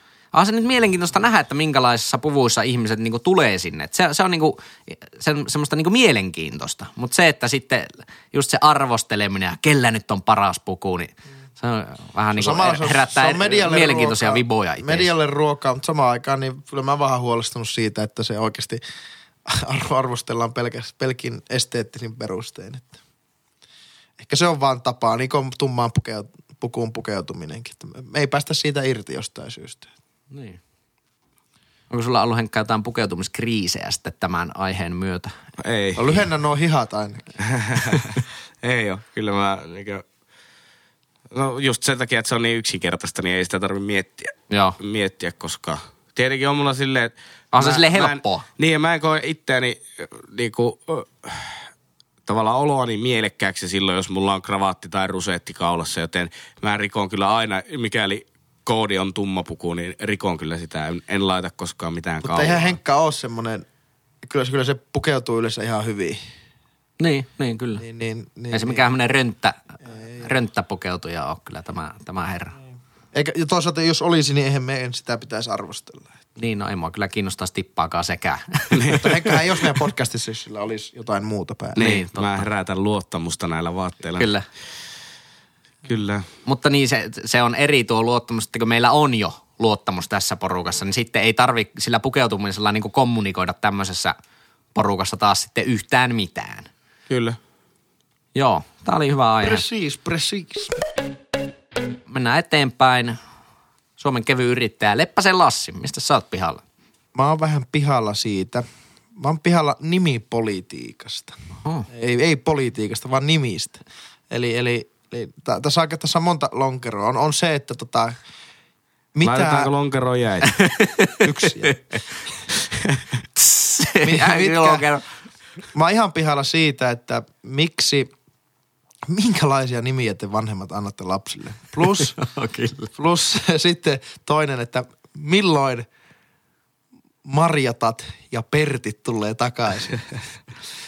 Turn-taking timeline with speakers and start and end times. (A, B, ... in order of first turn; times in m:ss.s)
0:00.3-0:15.1 A
0:12.4-0:18.8 B
0:19.4-0:23.0 B
0:24.2-0:29.9 B
0:30.3-0:30.6 A
0:31.9-0:35.4 A
0:35.6-0:36.2 C
0:36.0-0:37.4 B
0:37.5-0:40.0 C
0:41.3-0:51.7 C
0:44.5-0:44.8 A
0:47.5-0:48.4 A
0:52.2-1:02.8 C
1:02.2-1:03.6 B
1:04.2-1:06.2 B
1:07.0-1:07.8 A
1:07.8-1:08.9 B
1:08.5-1:12.5 A
1:09.9-1:10.3 B
1:13.1-1:16.1 B
1:16.4-1:19.1 A
1:18.7-1:19.2 C
1:19.0-1:21.8 B
1:21.8-1:22.4 A
1:21.8-1:24.3 C
1:24.2-1:24.4 A
1:25.8-1:26.3 C
1:26.4-1:34.1 A
1:34.7-1:36.7 A
1:37.1-1:37.4 C
1:38.3-1:39.6 A
1:39.4-1:40.8 B
1:42.1-1:43.2 A
1:44.0-1:46.6 A
1:47.1-1:48.6 B
1:49.2-1:51.4 B
1:51.9-1:58.2 B
1:59.1-1:59.7 B
1:59.2-2:00.5 C
2:00.5-2:02.2 A
2:01.2-2:01.8 B
2:03.4-2:05.0 A
2:04.0-2:04.8 B
2:05.7-2:08.1 B
2:09.1-2:12.2 B
2:11.9-2:12.9 A
2:13.0-2:15.9 B
2:17.2-2:20.1 B